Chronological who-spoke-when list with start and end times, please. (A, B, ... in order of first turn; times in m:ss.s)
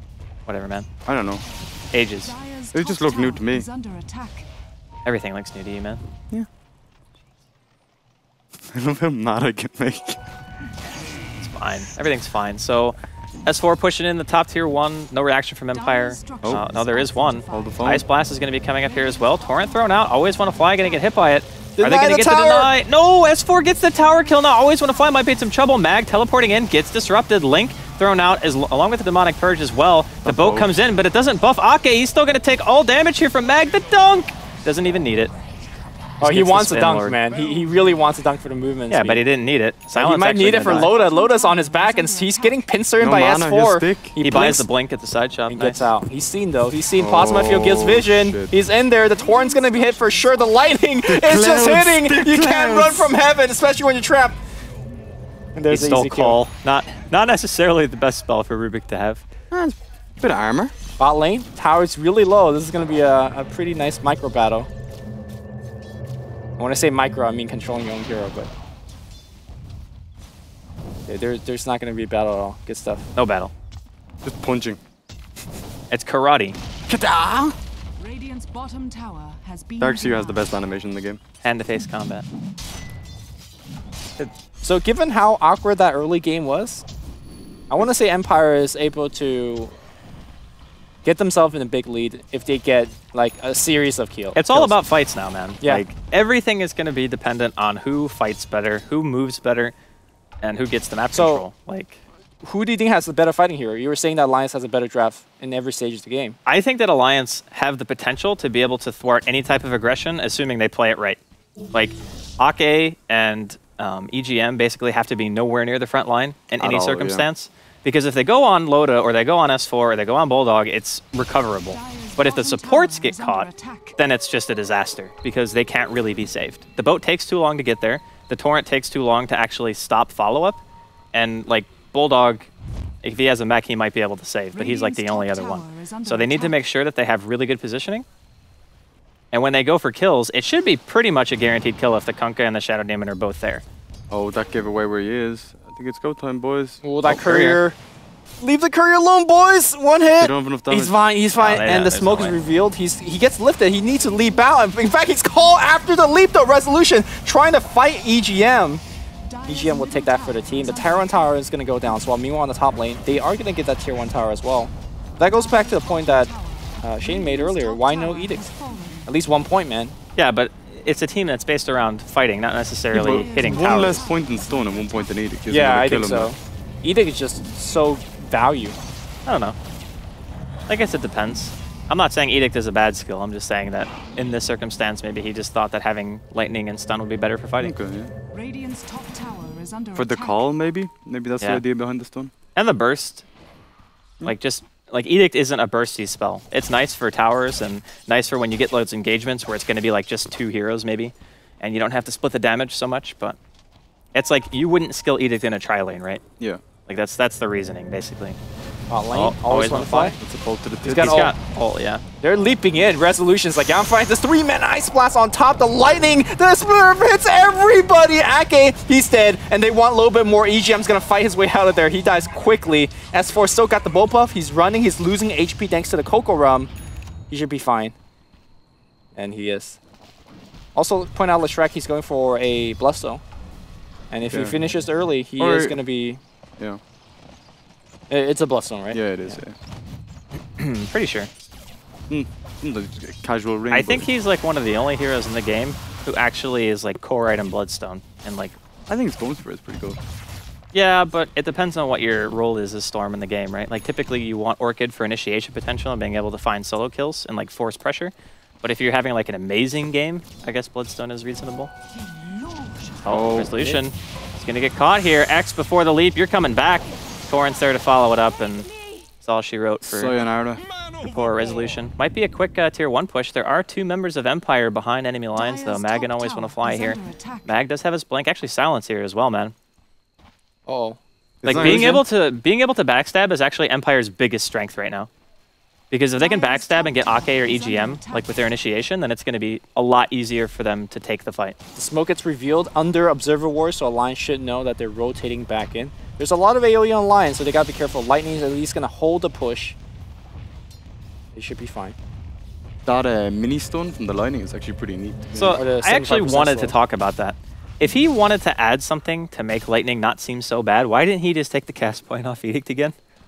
0:00.4-0:00.9 A
0:01.0-0:01.4 B
0:01.9-0:02.3 A
0:02.2-0:04.5 C
0:02.7-0:03.7 B
0:05.0-0:06.0 A
0:08.6-0:10.2 B
0:11.4-0:35.3 A
0:15.7-0:18.0 C
0:17.5-0:18.0 B
0:18.7-0:21.2 C
0:21.8-0:22.7 D
0:23.6-0:25.5 C
0:30.2-0:30.7 B
0:36.2-0:37.2 A
0:36.2-0:39.2 D
0:38.9-0:40.9 A
0:39.9-0:44.7 D
0:40.7-0:42.7 C
0:43.0-0:44.5 B
0:44.2-0:45.8 A
0:45.5-0:54.4 D
0:47.0-0:48.5 B
0:48.8-0:51.0 C
0:51.0-0:53.2 B
0:55.5-0:56.4 D
0:55.7-0:59.2 A
0:59.5-1:00.7 B
1:01.0-1:04.7 D
1:06.6-1:08.5 D
1:11.1-1:13.1 D
1:13.1-1:13.5 A
1:14.2-1:14.8 B
1:15.9-1:16.6 A
1:16.9-1:17.5 B
1:18.0-1:20.7 C
1:19.8-1:21.2 B
1:21.4-1:22.2 A
1:24.6-1:26.8 D
1:27.7-1:29.7 D
1:31.0-1:34.8 D
1:34.3-1:39.7 A
1:40.4-1:42.0 A
1:41.1-1:41.4 D
1:42.4-1:46.4 D
1:46.4-1:51.2 A
1:51.7-2:10.6 A
1:56.6-1:57.3 B
2:01.7-2:04.0 C
2:11.1-2:12.5 A
2:13.0-2:18.0 A
2:14.5-2:16.6 C
2:19.3-2:23.6 A
2:24.1-2:26.8 B
2:26.8-2:27.8 D
2:27.0-2:27.6 A
2:28.4-2:38.8 D
2:30.2-2:31.0 B
2:31.4-2:32.4 A
2:39.2-2:41.4 C
2:39.5-2:48.4 D
2:45.2-2:49.1 C
2:49.1-2:49.9 D
2:50.2-2:54.1 A
2:52.9-2:56.3 B
2:53.0-2:55.2 C
2:55.5-2:58.8 D
2:59.2-2:59.6 A
3:00.7-3:07.7 A
3:07.6-3:08.1 B
3:08.3-3:10.4 C
3:09.9-3:12.3 B
3:12.5-3:13.2 A
3:14.2-3:23.4 A
3:24.1-3:26.2 A
3:26.9-3:28.4 A
3:28.9-3:30.2 D
3:29.1-3:30.2 A
3:30.2-3:31.3 B
3:30.8-3:31.3 D
3:30.9-3:32.0 A
3:32.2-3:46.7 D
3:47.3-3:47.9 D
3:49.1-3:49.8 D
3:50.7-3:53.2 D
3:54.1-3:56.2 D
3:54.2-3:54.6 B
3:55.4-3:55.8 B
3:58.1-3:59.4 D
3:58.9-3:59.6 B
4:00.6-4:01.3 A
4:02.1-4:04.1 B
4:03.7-4:08.6 A
4:08.9-4:10.0 B
4:10.7-4:21.7 A
4:23.0-4:30.1 A
4:23.0-4:23.8 B
4:29.8-4:30.6 B
4:31.0-4:39.5 A
4:35.3-4:37.6 C
4:40.6-4:41.0 D
4:41.4-4:42.0 B
4:41.4-4:45.1 A
4:41.5-4:42.0 D
4:45.9-4:51.6 A
4:46.1-4:48.5 C
4:51.8-4:59.8 D
5:01.3-5:02.0 D
5:02.8-5:05.6 B
5:05.3-5:12.9 A
5:05.5-5:06.8 D